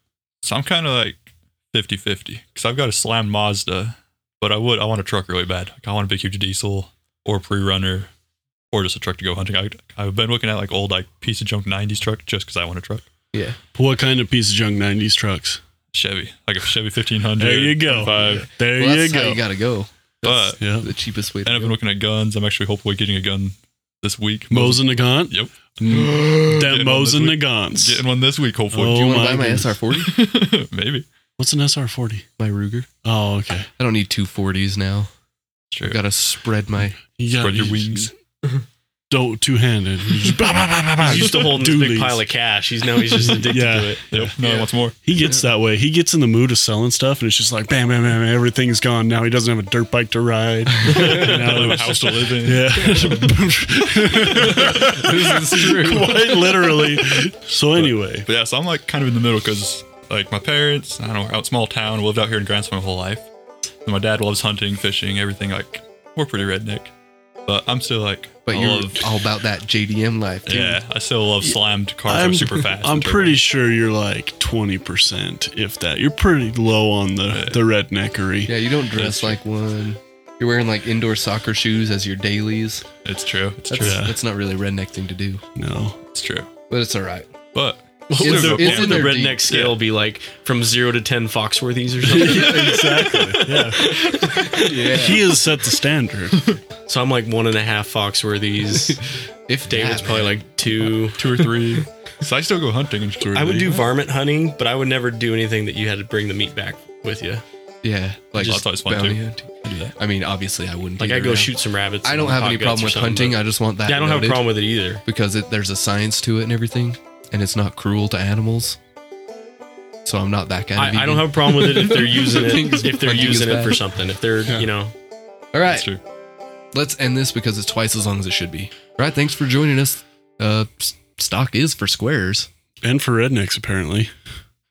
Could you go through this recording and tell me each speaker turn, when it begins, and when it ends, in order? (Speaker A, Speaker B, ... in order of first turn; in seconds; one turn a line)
Speaker A: 0.4-8.1
Speaker A: 8.7-13.0
Speaker B: 13.8-15.6
Speaker A: 15.9-18.4
Speaker B: 17.4-19.4
Speaker C: 18.1-21.8
Speaker A: 20.2-29.0
Speaker B: 20.6-20.9
Speaker B: 24.5-28.0
Speaker B: 28.7-29.7
Speaker C: 28.9-30.1
Speaker A: 29.9-31.1
Speaker B: 31.4-32.3
Speaker C: 32.4-32.9
Speaker B: 33.0-33.7
Speaker C: 33.8-35.1
Speaker A: 35.7-36.0
Speaker C: 35.8-37.0
Speaker B: 37.2-38.1
Speaker A: 37.3-38.1
Speaker B: 39.1-42.2
Speaker D: 41.0-44.7
Speaker B: 43.3-44.4
Speaker A: 44.1-45.0
Speaker B: 45.0-58.3
Speaker C: 50.9-51.2
Speaker D: 50.9-51.6
Speaker A: 51.0-53.2
Speaker C: 54.3-56.7
Speaker A: 57.8-63.3
Speaker A: 63.9-66.9
Speaker A: 67.5-69.1
Speaker C: 68.5-70.8
Speaker A: 70.5-73.4
Speaker B: 71.4-78.5
Speaker A: 77.3-77.6
Speaker C: 78.5-82.8
Speaker A: 79.0-79.4
Speaker A: 83.0-84.1
Speaker C: 83.7-85.4
Speaker B: 83.8-84.2
Speaker B: 85.6-86.0
Speaker A: 86.1-86.5
Speaker C: 86.7-87.3
Speaker A: 87.5-89.8
Speaker D: 88.1-93.1
Speaker C: 88.2-89.4
Speaker C: 92.1-93.4
Speaker B: 92.1-93.8
Speaker D: 93.7-95.0
Speaker C: 94.2-95.3
Speaker B: 94.9-96.5
Speaker D: 96.9-99.0
Speaker C: 98.9-100.9
Speaker D: 99.7-101.2
Speaker A: 101.1-103.8
Speaker D: 103.3-107.4
Speaker C: 107.8-111.5
Speaker A: 108.4-109.9
Speaker D: 111.0-115.0
Speaker C: 112.0-118.8
Speaker C: 120.0-123.8
Speaker D: 120.8-124.9
Speaker C: 125.5-125.9
Speaker A: 125.7-126.0
Speaker C: 126.7-132.5
Speaker B: 132.8-134.1